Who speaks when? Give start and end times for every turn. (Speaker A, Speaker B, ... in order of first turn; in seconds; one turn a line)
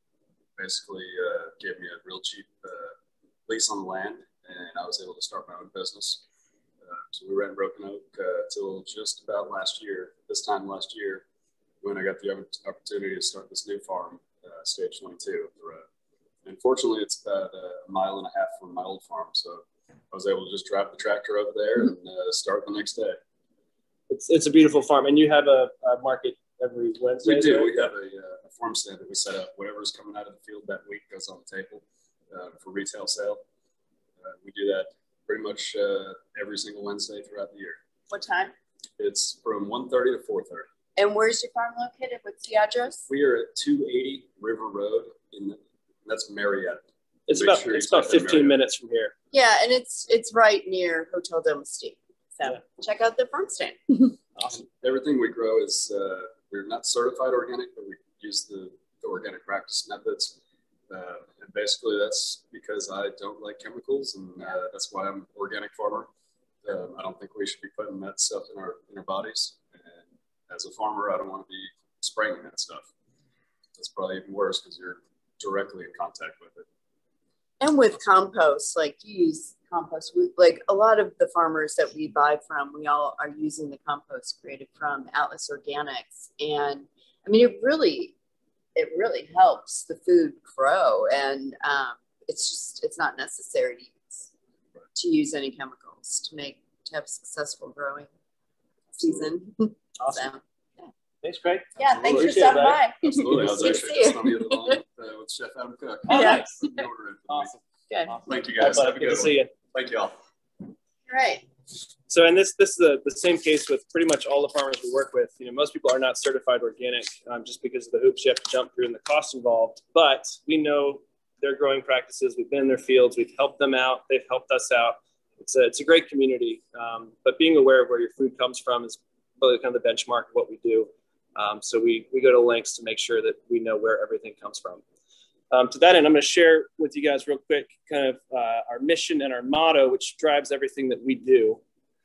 Speaker A: 0.6-3.0
Speaker A: 3.5-6.2
Speaker A: 6.8-11.2
Speaker A: 11.8-15.8
Speaker A: 16.4-23.2
Speaker B: 24.1-27.9
Speaker A: 27.2-33.4
Speaker A: 34.2-37.8
Speaker C: 38.1-38.5
Speaker A: 39.0-40.7
Speaker C: 41.0-43.0
Speaker A: 43.1-48.5
Speaker B: 47.3-49.1
Speaker C: 49.3-54.1
Speaker A: 54.5-60.4
Speaker A: 60.9-66.1
Speaker A: 66.6-72.9
Speaker A: 73.8-76.7
Speaker C: 77.6-88.1
Speaker C: 88.7-94.3
Speaker C: 94.9-98.1
Speaker C: 99.0-100.4
Speaker B: 100.0-100.3
Speaker B: 101.2-103.8
Speaker C: 101.8-104.8
Speaker A: 101.8-107.5
Speaker C: 106.1-106.5
Speaker B: 106.1-106.4
Speaker B: 108.1-109.5
Speaker A: 108.2-110.1
Speaker C: 111.1-111.5
Speaker B: 112.1-134.8
Speaker B: 135.5-141.6